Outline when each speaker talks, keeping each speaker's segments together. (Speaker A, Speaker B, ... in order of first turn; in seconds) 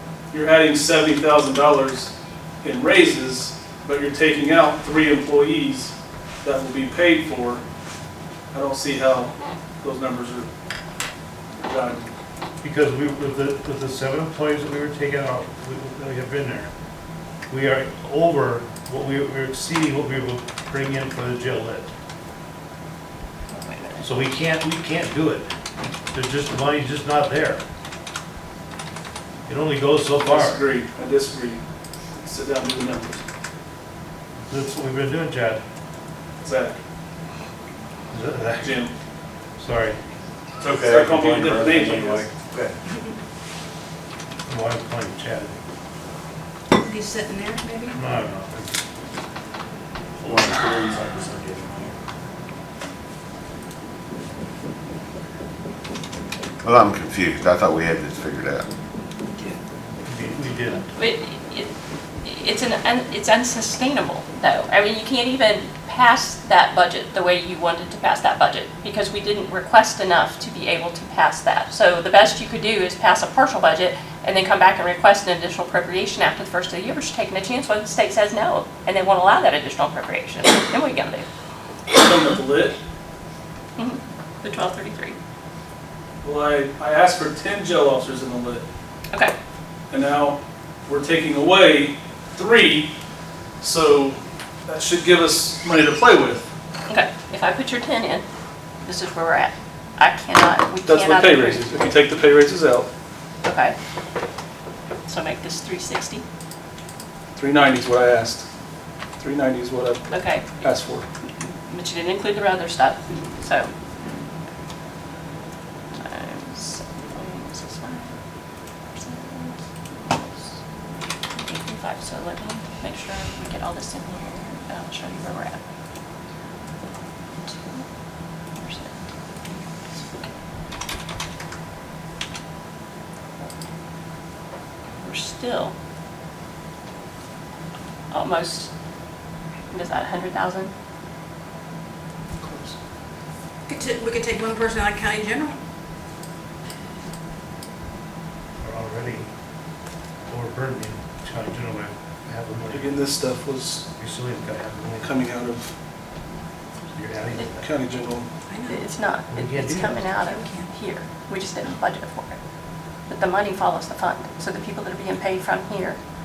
Speaker A: 0.3-7.6, 8.5-10.5, 11.6-12.1, 30.1-31.6, 32.2-33.2, 36.4-36.8, 38.6-38.9, 40.8-42.3, 81.9-82.8, 86.2-88.7, 89.9-92.9, 93.6-96.5, 100.8-102.9, 107.4-108.5, 109.2-111.0, 142.4-142.7, 152.7-153.8, 155.0-155.7, 157.6-158.3
Speaker B: 12.6-16.7, 17.5-21.9, 24.0-25.4, 26.1-27.6, 29.5-30.6, 34.5-35.6, 38.1-38.7, 39.6-40.0, 44.5-45.6, 47.9-48.8, 60.0-60.9, 148.6-149.3, 150.3-152.9, 154.0-155.2, 156.9-157.7, 159.3-160.1
Speaker C: 23.5-24.1, 60.9-61.7, 62.2-81.2, 83.8-85.2, 96.9-98.2, 98.8-101.7, 103.4-103.8, 105.0-106.2, 110.1-110.6, 111.2-113.7, 115.9-118.2, 118.9-120.5, 121.3-125.6, 127.4-127.9, 128.5-130.3, 135.0-135.7, 138.1-138.7, 139.7-140.7, 158.7-162.4, 163.1-166.0
Speaker D: 40.6-42.8, 50.2-51.9
Speaker E: 46.7-48.0, 143.7-145.6, 158.5-158.8, 160.2-160.7
Speaker F: 56.6-58.7